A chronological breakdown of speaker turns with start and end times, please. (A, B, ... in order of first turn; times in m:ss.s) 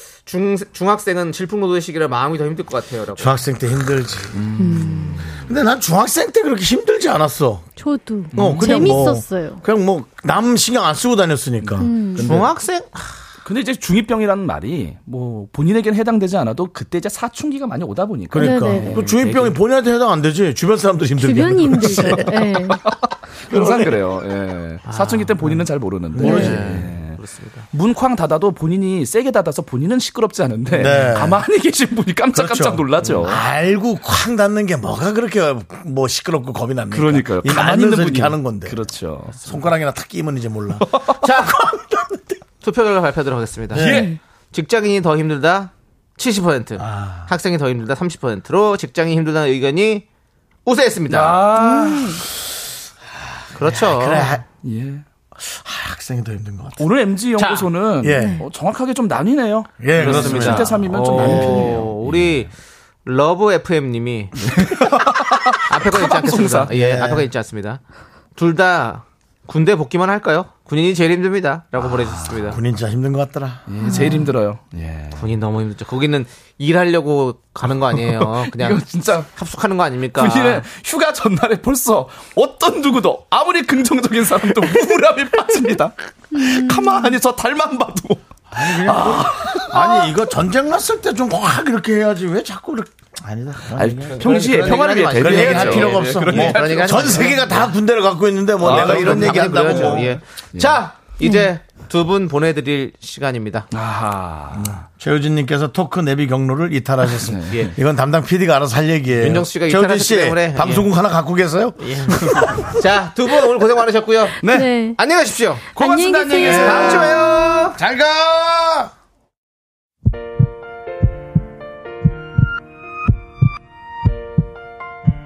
0:00.2-0:03.4 A
0:03.2-0:04.5 B
0:04.3-0:05.4 C
0:04.6-0:05.2 D
0:05.3-0:07.6 B
0:07.8-0:09.6 D
0:08.3-0:09.0 C
0:08.3-0:12.5 B
0:11.8-0:12.3 D
0:12.2-0:13.2 A
0:13.4-0:19.5 C
0:18.3-0:22.3 B
0:18.4-0:19.0 D
0:18.8-0:19.5 A
0:21.2-0:22.8 D
0:21.8-0:27.2 C
0:23.5-0:24.0 B
0:24.8-0:25.3 A
0:26.1-0:26.8 B
0:26.2-0:26.6 D
0:26.2-0:27.7 A
0:27.7-0:33.4 C
0:30.7-0:31.4 B
0:32.3-0:38.8 B
0:36.9-0:39.6 C
0:39.4-0:40.9 B
0:40.8-0:41.2 C
0:41.2-0:41.7 A
0:41.6-0:42.1 B
0:42.6-0:43.9 A
0:43.8-0:44.1 B
0:43.8-0:44.1 C
0:43.8-0:44.2 D
0:44.5-0:50.0 A
0:46.8-0:47.3 B
0:50.6-0:51.4 A
0:51.1-0:52.2 C
0:51.5-0:52.2 D
0:53.6-0:54.4 A
0:53.6-0:54.4 B
0:54.6-0:55.0 C
0:55.4-0:56.9 B
0:56.8-1:02.5 C
0:57.4-0:57.7 A
0:58.0-0:58.4 B
0:58.1-0:58.5 D
0:59.8-1:01.7 B
0:59.9-1:02.5 A
1:03.0-1:04.6 A
1:04.4-1:06.7 C
1:05.6-1:07.8 A
1:06.7-1:07.3 B
1:08.3-1:12.6 A
1:11.8-1:12.3 C
1:12.4-1:13.6 B
1:13.7-1:15.3 C
1:13.8-1:14.3 D
1:15.1-1:20.6 A
1:17.9-1:19.3 C
1:20.1-1:30.1 C
1:26.3-1:27.2 D
1:28.5-1:34.3 B
1:33.7-1:37.4 C
1:34.1-1:37.7 A
1:35.2-1:40.2 B
1:38.6-1:40.8 C
1:38.6-1:43.7 A
1:41.2-1:41.5 D
1:43.7-1:44.8 C
1:44.5-1:52.7 B
1:47.2-1:47.7 C
1:49.1-1:50.9 A
1:51.8-1:54.4 A
1:54.4-1:54.7 C
1:54.4-1:55.0 D
1:55.0-1:55.6 A
1:55.7-1:57.1 D
1:55.8-1:57.4 C
1:56.4-1:57.8 A
1:56.4-1:57.0 B
1:57.7-1:58.9 B